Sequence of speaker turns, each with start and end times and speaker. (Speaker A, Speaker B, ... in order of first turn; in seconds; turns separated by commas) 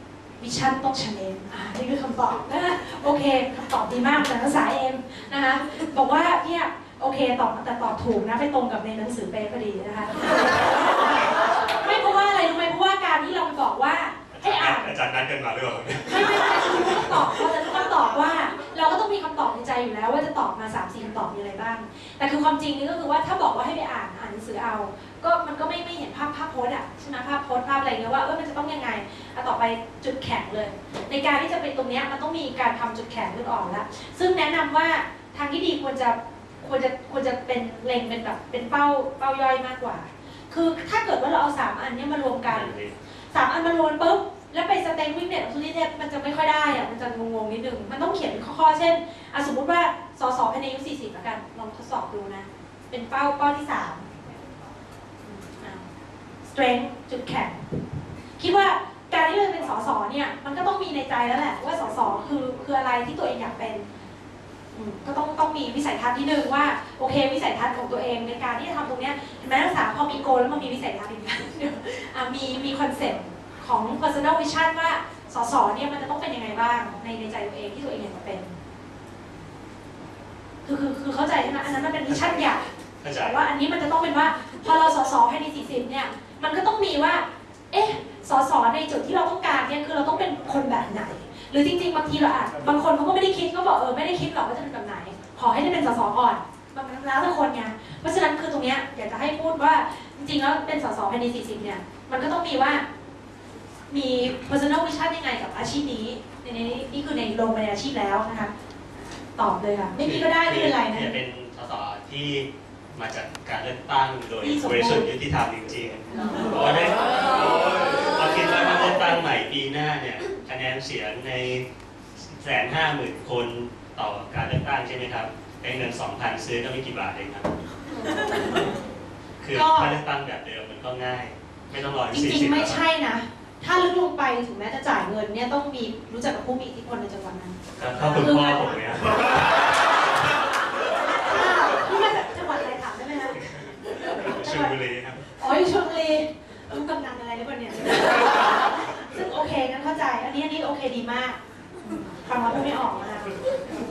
Speaker A: 0.4-14.9, Speaker B: 14.3-17.3, Speaker A: 16.1-42.7, Speaker B: 42.5-42.9, Speaker A: 43.3-54.1, Speaker A: 55.3-55.8, Speaker A: 56.5-57.6, Speaker A: 58.4-63.9, Speaker A: 64.7-78.5, Speaker A: 80.7-102.8, Speaker B: 83.0-83.4, Speaker A: 103.9-108.5, Speaker A: 109.4-111.2, Speaker B: 110.0-121.7, Speaker A: 114.4-115.1, Speaker B: 122.2-127.5, Speaker A: 128.1-128.6, Speaker B: 129.4-132.8, Speaker A: 129.5-129.9, Speaker A: 132.1-137.6, Speaker B: 137.8-139.5, Speaker A: 138.1-139.5, Speaker A: 141.1-143.4, Speaker B: 143.5-145.2, Speaker A: 144.0-144.8, Speaker A: 145.4-151.4, Speaker A: 152.1-153.4